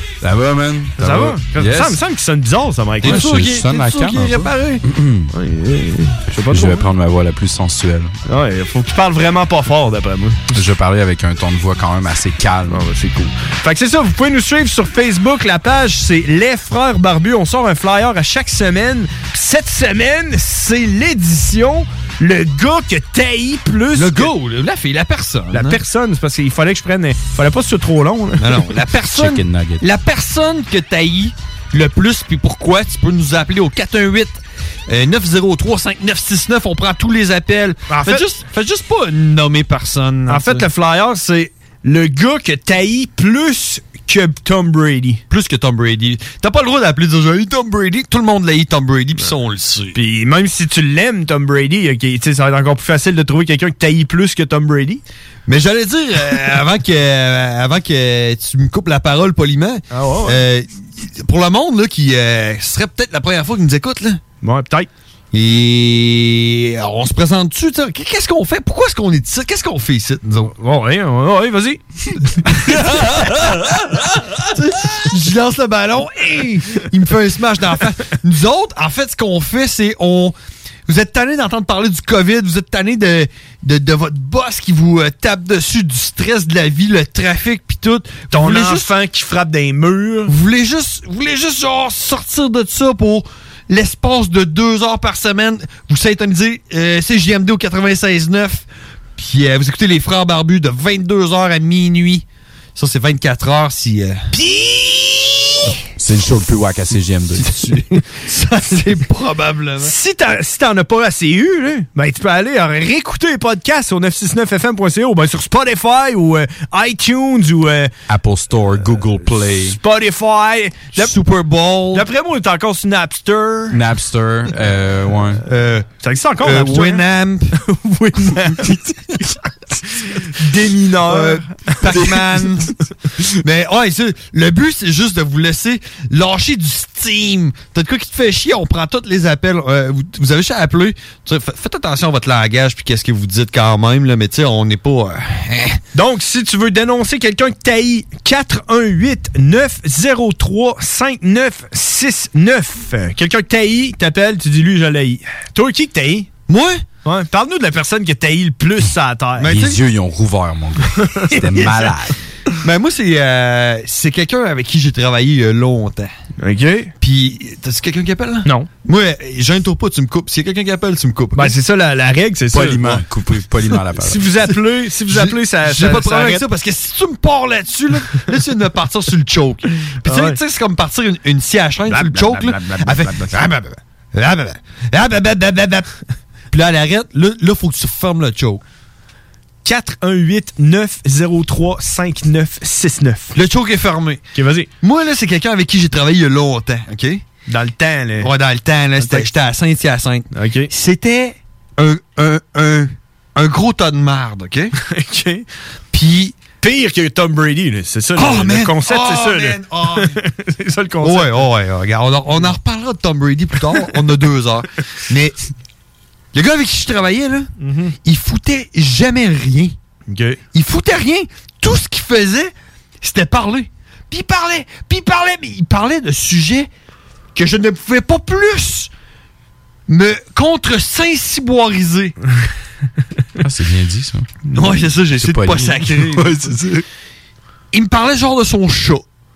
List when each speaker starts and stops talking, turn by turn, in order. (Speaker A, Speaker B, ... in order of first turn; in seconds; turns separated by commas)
Speaker A: 0.2-2.0, Speaker B: 1.0-3.4, Speaker C: 3.0-4.8, Speaker A: 3.0-5.3, Speaker B: 5.3-6.9, Speaker A: 6.3-8.1, Speaker B: 8.3-10.6, Speaker A: 10.5-12.9, Speaker B: 12.7-24.3, Speaker C: 23.9-25.8, Speaker B: 25.5-28.7, Speaker C: 28.4-40.7, Speaker A: 29.1-29.8, Speaker B: 37.9-38.2, Speaker B: 40.3-45.2, Speaker C: 45.3-50.0, Speaker B: 49.9-55.0, Speaker C: 55.5-64.2, Speaker B: 59.9-60.4, Speaker B: 64.4-64.9, Speaker C: 65.3-70.5, Speaker B: 70.6-71.8, Speaker C: 72.5-80.4, Speaker C: 80.9-88.8, Speaker B: 88.3-90.3, Speaker C: 90.3-98.7, Speaker C: 99.2-102.2, Speaker C: 102.8-104.2, Speaker B: 104.3-105.7, Speaker A: 106.0-107.8, Speaker C: 108.2-109.9, Speaker B: 109.8-117.9, Speaker A: 118.1-119.8, Speaker B: 119.6-121.2, Speaker C: 121.0-122.1, Speaker B: 121.9-123.8, Speaker A: 123.7-125.4, Speaker C: 125.5-125.9, Speaker B: 126.0-127.0, Speaker C: 126.4-127.5, Speaker B: 127.6-132.5, Speaker C: 131.0-132.8, Speaker C: 133.4-145.8, Speaker B: 145.9-156.3, Speaker C: 156.5-156.8, Speaker B: 157.1-159.6, Speaker C: 159.4-159.8, Speaker A: 159.4-162.2, Speaker B: 161.0-161.8, Speaker C: 162.6-166.1, Speaker B: 166.4-166.9, Speaker C: 167.0-171.5, Speaker B: 171.3-172.9, Speaker A: 172.5-174.3, Speaker B: 174.0-176.4, Speaker C: 175.1-185.9, Speaker B: 180.1-180.4, Speaker C: 186.5-188.6, Speaker B: 189.6-193.3, Speaker C: 193.3-194.2, Speaker B: 194.3-194.7, Speaker C: 194.8-197.2, Speaker B: 197.5-198.3, Speaker C: 198.2-204.7, Speaker B: 199.0-199.3, Speaker B: 200.3-200.7, Speaker B: 204.8-205.5, Speaker C: 205.9-206.4, Speaker B: 206.6-211.4, Speaker C: 208.2-210.2, Speaker C: 211.0-215.4, Speaker C: 216.3-217.5, Speaker B: 217.6-217.9, Speaker C: 218.0-219.8, Speaker B: 220.1-220.4, Speaker C: 220.5-226.7, Speaker C: 227.3-228.9, Speaker C: 229.9-232.2, Speaker A: 233.4-234.3, Speaker C: 234.6-236.5, Speaker A: 235.2-236.8, Speaker C: 237.7-239.0